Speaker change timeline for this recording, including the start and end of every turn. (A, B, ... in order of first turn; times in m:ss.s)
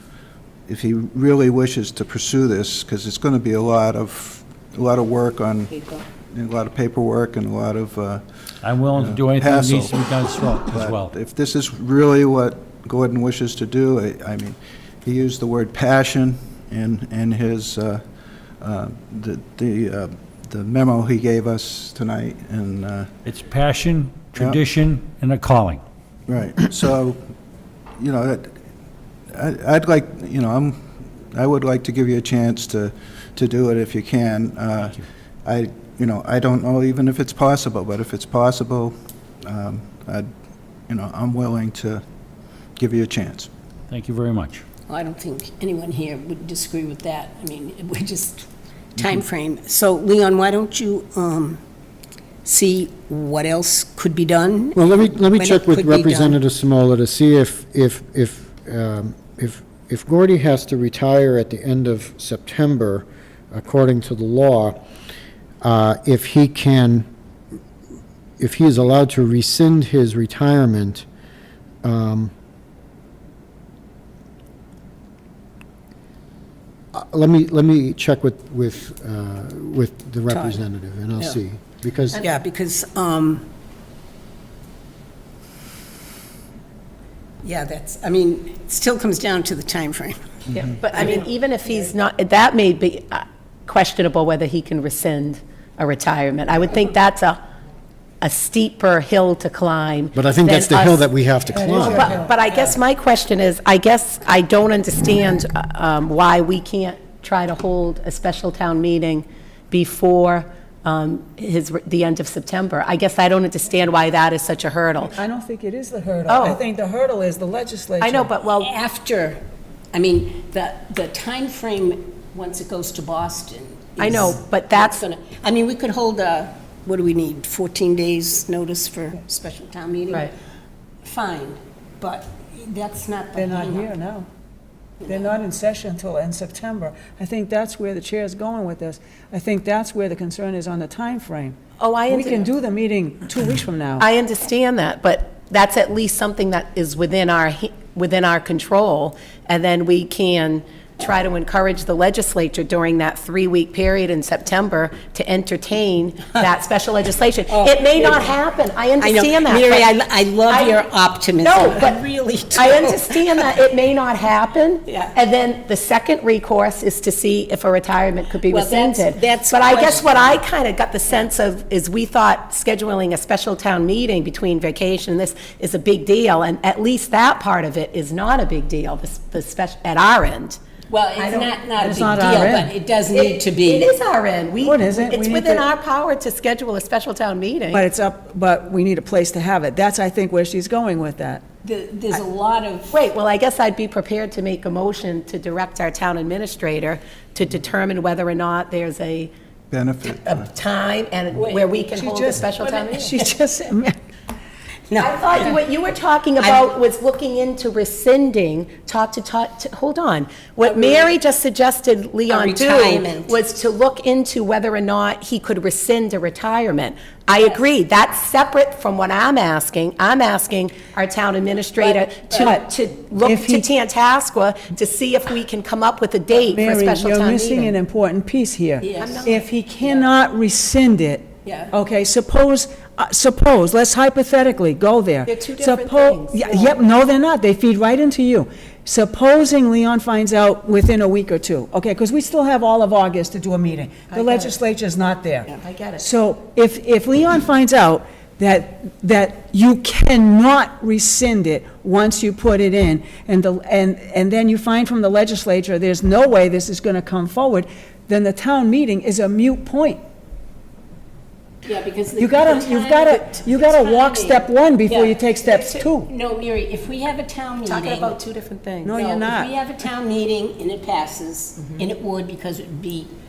0:00.7-0:05.7 A
0:06.3-0:08.2 A
0:08.6-0:11.1 B
0:08.9-0:10.0 A
0:10.7-0:18.0 A
0:18.6-0:23.1 A
0:23.2-0:25.8 B
0:24.4-0:24.6 A
0:26.3-0:27.2 A
0:28.0-0:28.5 A
0:29.3-0:30.8 A
0:31.3-0:40.3 A
0:40.9-0:42.0 A
0:42.8-0:43.5 A
0:43.9-0:44.6 B
0:44.9-0:51.6 C
0:52.4-0:56.4 C
0:54.8-1:04.8 D
1:05.6-1:07.1 D
1:08.4-1:11.1 D
1:11.8-1:12.3 D
1:16.9-1:22.3 D
1:20.3-1:20.6 C
1:22.2-1:23.5 C
1:27.4-1:30.2 C
1:30.5-1:37.4 E
1:30.9-1:31.3 C
1:38.2-1:41.0 E
1:40.1-1:42.2 D
1:41.6-1:42.3 F
1:41.8-1:55.2 E
1:55.1-1:58.4 F
1:56.3-1:56.6 E
1:58.0-1:58.7 E
1:58.6-1:59.4 C
1:59.9-2:10.3 C
2:04.0-2:05.0 E
2:11.0-2:13.9 C
2:13.4-2:14.3 F
2:15.0-2:15.4 C
2:15.1-2:24.1 F
2:21.8-2:22.5 E
2:24.0-2:39.9 E
2:37.5-2:38.4 C
2:39.0-2:43.6 C
2:40.5-2:40.8 E
2:41.4-2:42.0 E
2:42.5-3:00.6 E
2:44.9-2:45.1 C
2:48.4-2:50.4 C
3:00.9-3:03.9 C
3:01.2-3:01.6 E
3:01.8-3:02.7 F
3:03.1-3:07.8 E
3:04.6-3:05.7 F
3:07.7-3:11.4 F
3:11.6-3:12.9 C
3:12.9-3:19.3 E
3:19.7-3:20.5 A
3:20.0-3:23.2 E
3:21.3-3:21.7 C
3:22.0-3:24.0 F
3:22.6-3:23.2 C
3:24.9-3:25.6 C
3:25.0-3:47.8 E
3:26.4-3:26.7 C
3:30.6-3:31.1 C
3:32.3-3:33.4 C
3:37.3-3:37.6 C
3:41.8-3:42.6 C
3:42.4-3:43.7 F
3:46.4-4:20.0 F
3:48.8-3:49.3 C
3:49.0-3:49.4 E
3:49.8-3:50.1 C
3:51.5-3:51.7 C
3:55.3-3:56.8 E
4:04.1-4:04.6 E
4:05.6-4:06.1 E
4:21.6-4:28.2 C
4:22.2-4:26.1 F
4:27.6-4:29.0 E
4:28.8-4:29.5 F
4:28.9-4:33.1 C
4:31.6-4:31.8 E